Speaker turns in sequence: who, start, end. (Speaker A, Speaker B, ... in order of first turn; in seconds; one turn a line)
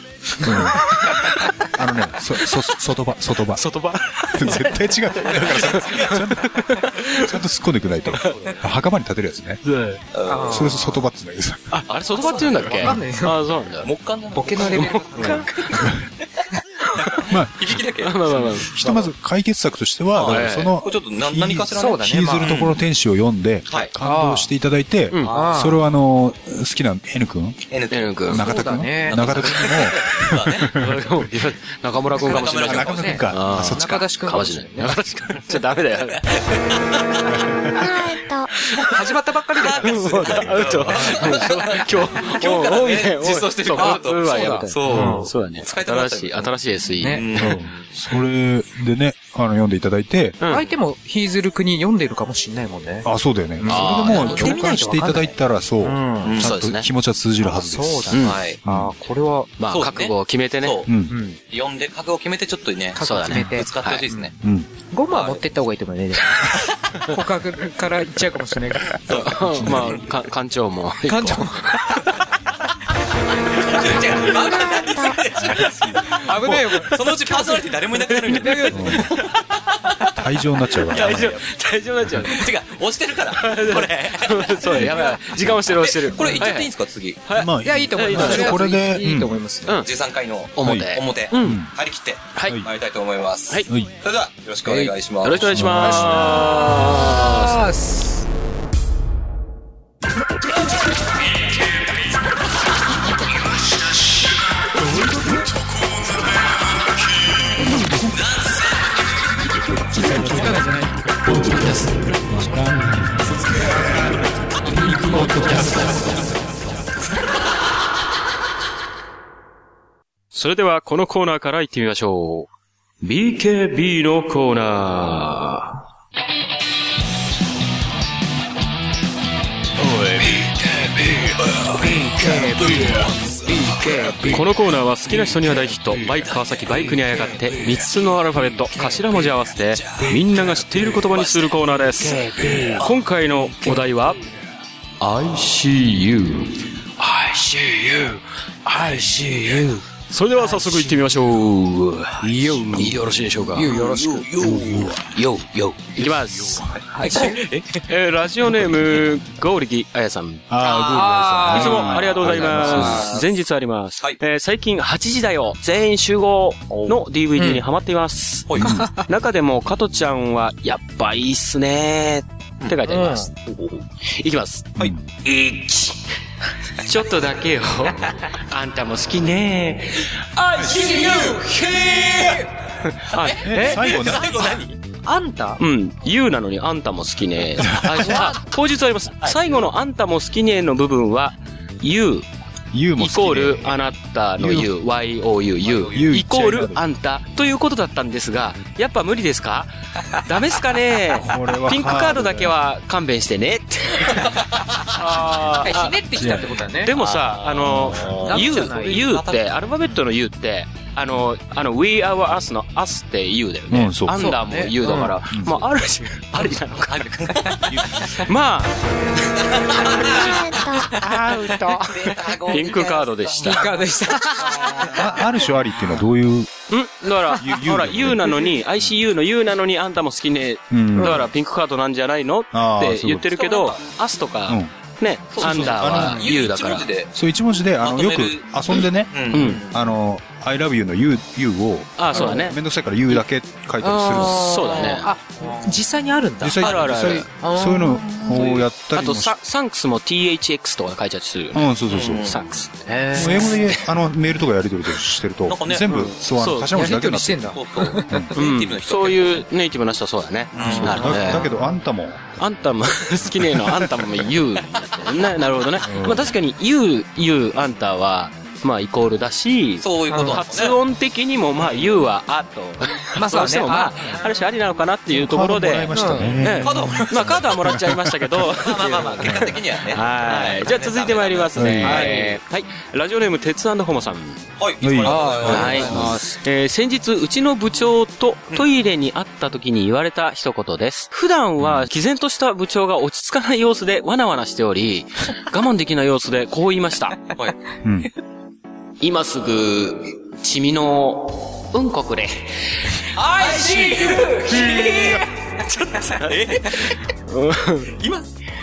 Speaker A: 0.4-1.0
Speaker A: 1.7-3.7
Speaker B: 3.6-7.3
Speaker A: 4.3-9.6
Speaker C: 5.3-6.2
Speaker C: 8.2-8.6
Speaker B: 9.6-10.0
Speaker C: 10.1-11.0
Speaker D: 10.3-10.9
Speaker A: 10.3-11.8
Speaker B: 11.7-13.9
Speaker C: 11.9-13.0
Speaker D: 12.6-13.4
Speaker C: 13.8-16.0
Speaker D: 14.3-15.5
Speaker B: 14.6-15.9
Speaker A: 15.7-16.0
Speaker C: 17.0-19.1
Speaker A: 17.3-17.8
Speaker B: 18.0-18.8
Speaker A: 18.6-27.6
Speaker C: 20.1-22.5
Speaker B: 20.3-20.8
Speaker D: 21.8-22.5
Speaker B: 22.4-22.8
Speaker D: 24.0-24.5
Speaker C: 25.2-25.6
Speaker D: 25.3-25.8
Speaker C: 27.7-28.5
Speaker B: 27.9-28.4
Speaker A: 28.2-30.9
Speaker D: 28.4-29.2
Speaker C: 29.1-30.9
Speaker B: 29.2-30.0
Speaker B: 30.7-36.4
Speaker C: 32.2-33.3
Speaker D: 32.3-35.0
Speaker A: 32.5-34.1
Speaker C: 36.1-37.4
Speaker E: 37.8-38.5
Speaker D: 38.9-40.4
Speaker C: 39.6-46.5
Speaker B: 39.8-47.6
Speaker A: 40.3-41.1
Speaker D: 43.7-45.2
Speaker A: 44.9-45.2
Speaker C: 47.0-47.9
Speaker A: 47.4-50.4
Speaker B: 50.4-50.7
Speaker D: 50.5-53.1
Speaker A: 53.0-58.9
Speaker D: 53.6-56.4
Speaker B: 53.7-54.5
Speaker C: 54.1-54.7
Speaker C: 56.2-56.5
Speaker B: 56.4-56.9
Speaker D: 57.4-59.5
Speaker B: 58.1-58.4
Speaker C: 58.2-58.6
Speaker B: 59.6-60.9
Speaker C: 59.7-60.9
Speaker A: 60.9-61.2
Speaker D: 61.1-61.4
Speaker C: 61.5-64.3
Speaker D: 63.0-64.3
Speaker B: 63.0-64.0
Speaker A: 64.4-64.7
Speaker D: 64.9-69.0
Speaker C: 65.1-65.4
Speaker C: 69.1-70.0
Speaker B: 69.1-72.0
Speaker A: 69.5-70.0
Speaker D: 71.1-72.0
Speaker C: 73.5-79.3
Speaker E: 74.5-75.2
Speaker A: 75.4-76.7
Speaker D: 76.2-77.8
Speaker D: 78.3-79.1
Speaker B: 78.3-78.6
Speaker A: 78.7-79.1
Speaker A: 80.2-81.4
Speaker B: 80.9-82.5
Speaker C: 80.9-81.4
Speaker C: 82.2-87.2
Speaker B: 83.4-86.7
Speaker A: 84.7-84.9
Speaker B: 87.3-88.7
Speaker A: 87.3-89.4
Speaker D: 87.6-89.8
Speaker B: 89.7-89.9
Speaker C: 89.8-95.7
Speaker B: 90.6-91.6
Speaker A: 90.6-91.7
Speaker B: 92.3-92.6
Speaker A: 93.7-93.9
Speaker D: 94.7-94.9
Speaker B: 94.7-97.6
Speaker A: 95.5-96.3
Speaker D: 95.8-98.2
Speaker C: 108.2-108.7
Speaker D: 110.0-110.9
Speaker B: 111.4-111.9
Speaker B: 115.2-115.6
Speaker B: 120.3-122.5
Speaker B: 123.0-125.8
Speaker B: 129.8-130.5
Speaker D: 131.8-134.4
Speaker B: 132.7-133.0
Speaker B: 134.3-144.2
Speaker C: 140.9-141.6
Speaker D: 142.0-142.9
Speaker B: 145.0-153.8
Speaker D: 150.4-150.9
Speaker D: 152.2-152.9
Speaker A: 152.3-153.1
Speaker D: 153.5-154.3
Speaker C: 153.7-154.2
Speaker B: 154.3-157.3
Speaker A: 154.4-155.1
Speaker A: 156.0-156.7
Speaker C: 156.8-157.8
Speaker D: 156.9-157.4
Speaker B: 157.8-160.5
Speaker A: 160.5-163.1
Speaker D: 160.6-163.1
Speaker B: 161.5-173.5
Speaker C: 161.8-163.3
Speaker D: 167.4-167.6
Speaker C: 168.5-168.8
Speaker A: 168.6-168.8
Speaker D: 168.7-169.0
Speaker D: 172.9-173.3
Speaker B: 174.1-174.7
Speaker B: 175.2-176.0
Speaker B: 176.8-184.6
Speaker D: 180.5-182.1
Speaker C: 181.9-182.3
Speaker C: 183.2-184.8
Speaker A: 183.4-184.4
Speaker D: 185.0-185.6
Speaker B: 185.6-192.3
Speaker A: 187.7-188.0
Speaker D: 188.0-188.4
Speaker C: 189.2-189.6
Speaker A: 192.7-193.8
Speaker B: 193.0-204.3
Speaker A: 194.4-194.7
Speaker C: 195.6-196.1
Speaker A: 195.9-196.8
Speaker A: 201.1-202.5
Speaker C: 204.2-204.6
Speaker B: 204.9-206.0
Speaker D: 205.5-206.9
Speaker A: 206.2-206.6
Speaker B: 206.8-218.8
Speaker C: 207.0-209.6
Speaker A: 207.6-208.2
Speaker D: 208.2-209.0
Speaker A: 213.7-214.3
Speaker D: 214.2-215.2
Speaker A: 215.3-215.7
Speaker C: 216.3-218.3
Speaker C: 219.4-221.2
Speaker B: 219.7-220.2
Speaker E: 220.2-220.9
Speaker D: 220.9-222.1
Speaker C: 221.8-225.1
Speaker B: 222.5-223.7
Speaker D: 223.4-225.0
Speaker A: 224.9-226.5
Speaker B: 226.7-236.9
Speaker A: 227.3-228.4
Speaker A: 230.7-231.3
Speaker A: 232.5-233.3
Speaker C: 233.3-233.8
Speaker C: 235.3-237.1
Speaker A: 235.4-236.3
Speaker A: 237.1-244.9
Speaker C: 237.8-239.9
Speaker B: 239.3-239.7
Speaker B: 242.0-242.6
Speaker B: 243.8-245.1
Speaker D: 244.1-246.6
Speaker C: 245.4-245.8
Speaker A: 246.4-249.4
Speaker B: 246.6-247.3
Speaker C: 246.6-247.1
Speaker D: 247.4-248.4
Speaker B: 248.3-251.7
Speaker A: 251.5-252.4
Speaker C: 251.9-252.5
Speaker B: 252.2-253.8
Speaker D: 252.9-253.5
Speaker A: 253.1-258.3
Speaker C: 255.5-256.1
Speaker B: 255.9-256.8
Speaker D: 256.8-258.2
Speaker C: 257.4-259.4
Speaker B: 258.4-261.5
Speaker C: 260.6-261.4
Speaker A: 260.6-262.3
Speaker D: 260.7-261.3
Speaker B: 262.4-284.4
Speaker A: 265.8-266.3
Speaker C: 269.8-270.8
Speaker D: 270.1-270.4
Speaker C: 271.6-272.0
Speaker D: 273.2-274.2
Speaker A: 275.1-278.2
Speaker D: 275.9-276.5
Speaker C: 276.5-277.5
Speaker C: 278.5-282.1
Speaker A: 281.6-282.1
Speaker D: 281.8-282.4
Speaker C: 284.6-286.1
Speaker A: 284.8-286.2
Speaker D: 285.1-286.4
Speaker B: 285.4-297.2
Speaker A: 291.6-291.9
Speaker A: 297.8-298.1
Speaker B: 299.0-308.0
Speaker C: 303.2-305.2
Speaker D: 303.9-304.9
Speaker C: 305.9-307.0
Speaker C: 307.9-308.3